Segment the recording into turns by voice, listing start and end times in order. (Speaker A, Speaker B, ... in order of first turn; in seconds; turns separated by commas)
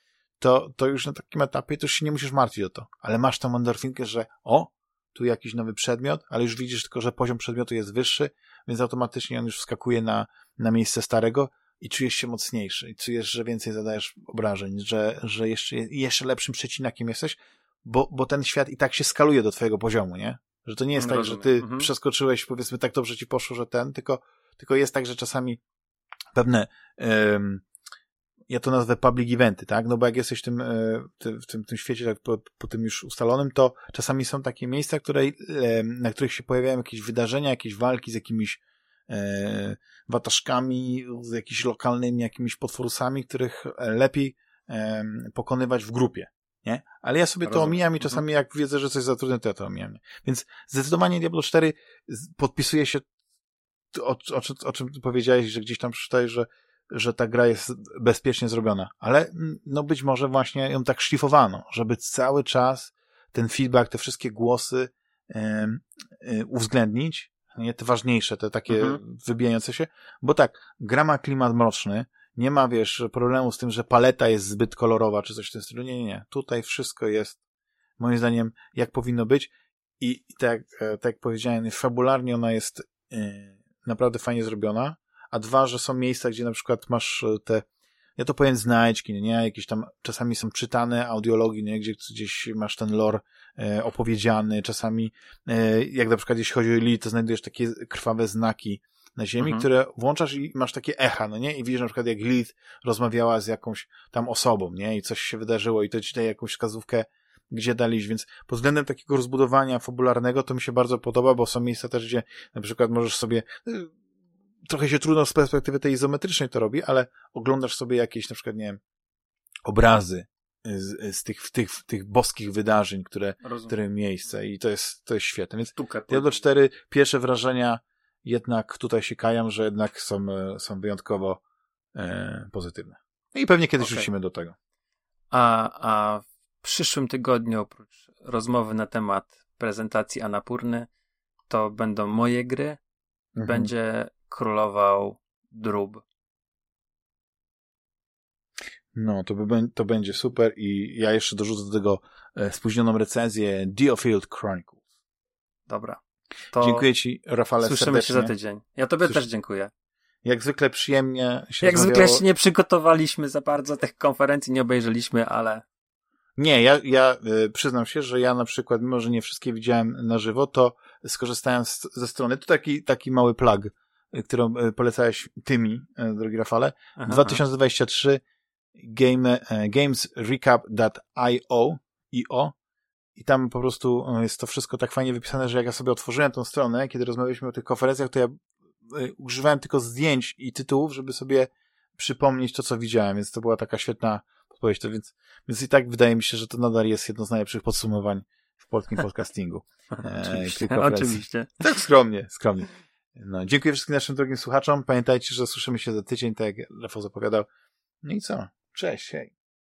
Speaker A: 0.4-25.6, Speaker B: 21.0-21.9, Speaker A: 26.3-27.6, Speaker A: 28.5-53.0, Speaker B: 47.4-48.2, Speaker A: 53.9-77.4, Speaker B: 68.7-69.0, Speaker A: 78.0-87.7, Speaker A: 88.2-113.9, Speaker B: 99.4-99.7, Speaker A: 114.7-118.8, Speaker A: 119.7-131.4, Speaker B: 123.4-123.8, Speaker B: 125.8-126.4, Speaker A: 131.9-134.5, Speaker B: 133.8-134.1, Speaker B: 135.3-140.9, Speaker B: 141.5-142.8, Speaker A: 143.3-143.7, Speaker B: 143.4-146.0, Speaker A: 148.9-154.8, Speaker B: 155.7-156.0, Speaker B: 156.5-156.9, Speaker A: 156.6-158.3, Speaker B: 157.6-159.7, Speaker A: 160.2-162.2, Speaker B: 161.6-165.6, Speaker A: 166.4-178.2, Speaker B: 177.0-177.4, Speaker A: 178.8-182.5, Speaker A: 183.2-207.5, Speaker B: 200.1-201.6, Speaker A: 208.0-209.3